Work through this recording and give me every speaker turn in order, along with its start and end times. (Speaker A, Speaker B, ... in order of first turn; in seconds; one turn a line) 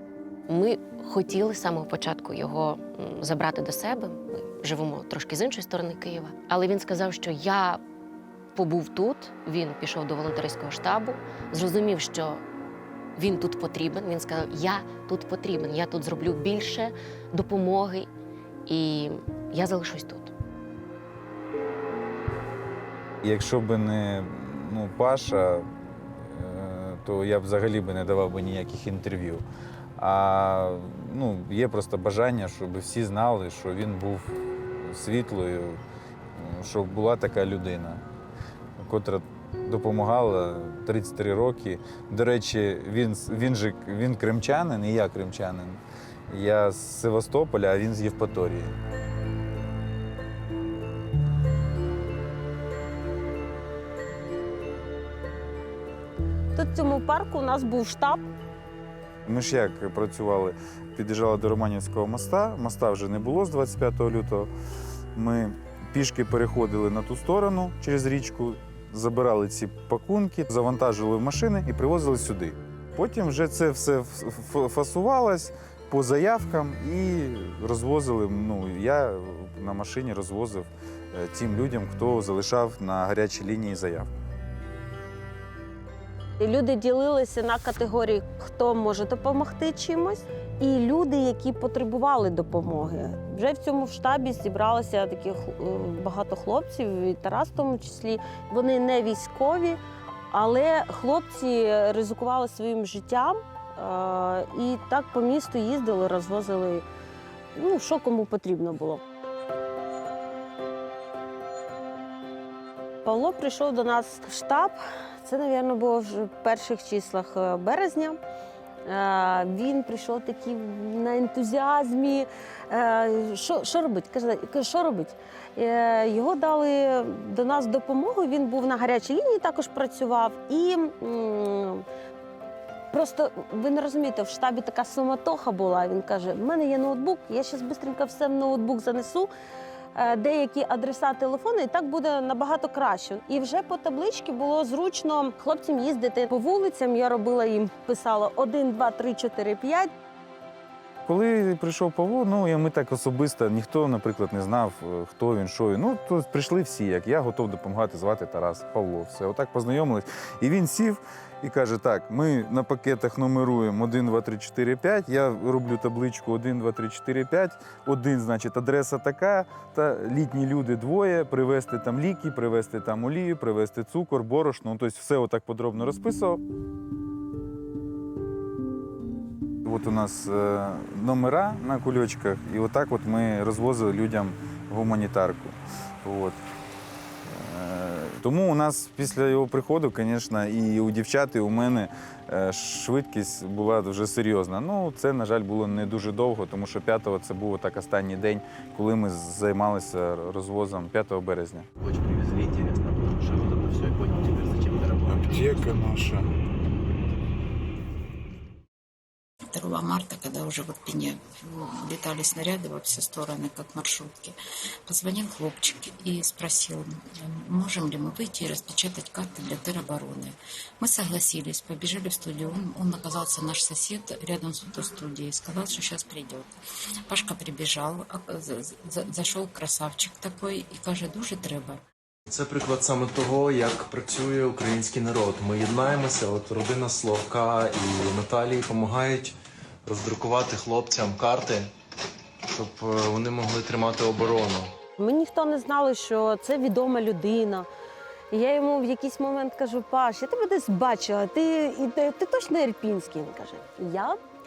Speaker A: 0.5-7.8
Speaker A: 8.6-12.4
Speaker A: 13.2-18.1
Speaker A: 18.7-20.3
Speaker B: 23.2-29.4
Speaker B: 30.0-35.8
Speaker B: 36.4-38.0
Speaker B: 38.8-48.7
Speaker C: 56.5-58.2
Speaker B: 59.3-64.5
Speaker B: 65.2-84.1
Speaker C: 86.4-99.8
Speaker C: 100.3-106.8
Speaker C: 107.5-109.0
Speaker C: 113.0-118.2
Speaker C: 118.9-131.8
Speaker C: 132.9-139.3
Speaker C: 139.9-149.9
Speaker B: 151.1-176.4
Speaker B: 179.7-186.4
Speaker B: 187.3-201.7
Speaker D: 201.8-206.0
Speaker B: 205.1-206.3
Speaker E: 209.5-226.5
Speaker E: 227.1-231.8
Speaker F: 232.3-239.3
Speaker F: 239.8-241.7
Speaker F: 242.5-244.7
Speaker C: 245.0-247.7
Speaker C: 248.3-254.2